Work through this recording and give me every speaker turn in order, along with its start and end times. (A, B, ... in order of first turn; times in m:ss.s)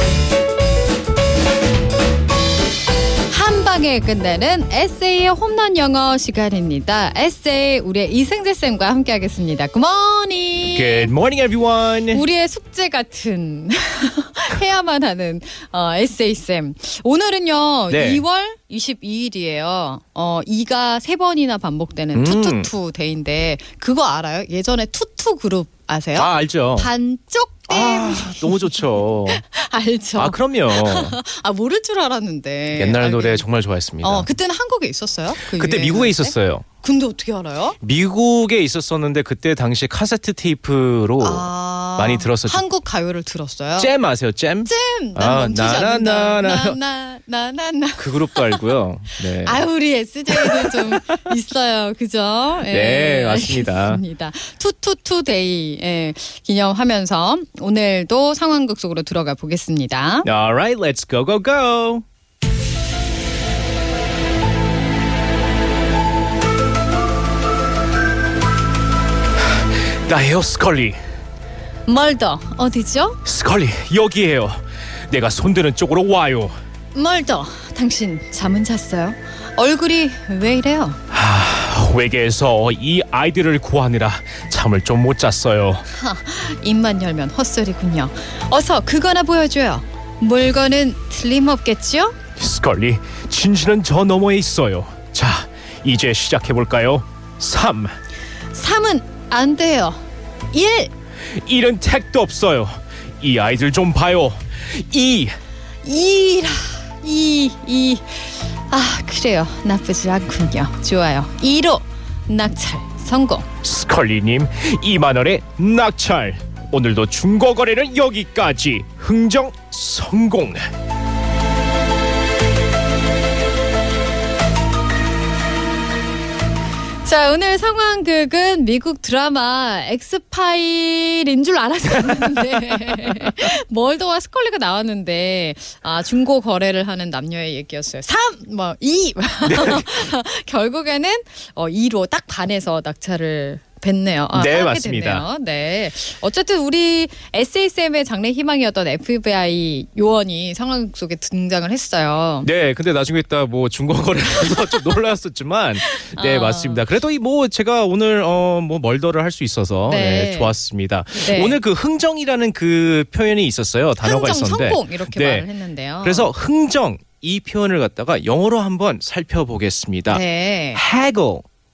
0:03.3-0:11.1 A
0:10.7-0:12.2 B
0:12.1-0:33.4 A
0:17.9-0:18.2 B
0:22.2-0:22.7 B
0:26.2-0:26.9 B
0:27.7-0:29.4 B
0:30.2-0:31.2 B
0:32.8-0:34.3 B
0:34.0-0:37.8 A
0:35.5-0:36.6 B
0:37.8-0:42.6 B
0:41.2-0:43.9 A
0:43.8-0:46.8 B
0:44.6-0:48.7 A
0:48.0-0:49.6 B
0:49.4-1:00.3 A
0:50.3-0:51.0 B
0:52.7-0:54.0 B
1:00.2-1:02.0 B
1:10.1-1:11.0 B
1:11.9-1:13.2 A
1:13.2-1:16.5 B
1:16.9-1:21.0 A
1:21.1-1:25.8 B
1:25.9-1:32.2 A
1:32.4-1:37.9 B
1:38.5-1:40.9 A
1:41.3-1:45.3 B
1:45.8-1:53.5 A
1:53.6-2:00.6 B
2:07.0-2:32.5 A
2:19.4-2:19.9 B
2:24.3-2:25.3 B
2:32.4-2:45.5 B
2:34.3-2:34.9 A
2:35.8-2:36.8 A
2:39.9-2:40.6 A
2:41.2-2:41.6 A
2:44.0-2:46.3 A
2:46.0-2:50.2 B
2:50.1-2:50.8 A
2:50.8-2:51.4 B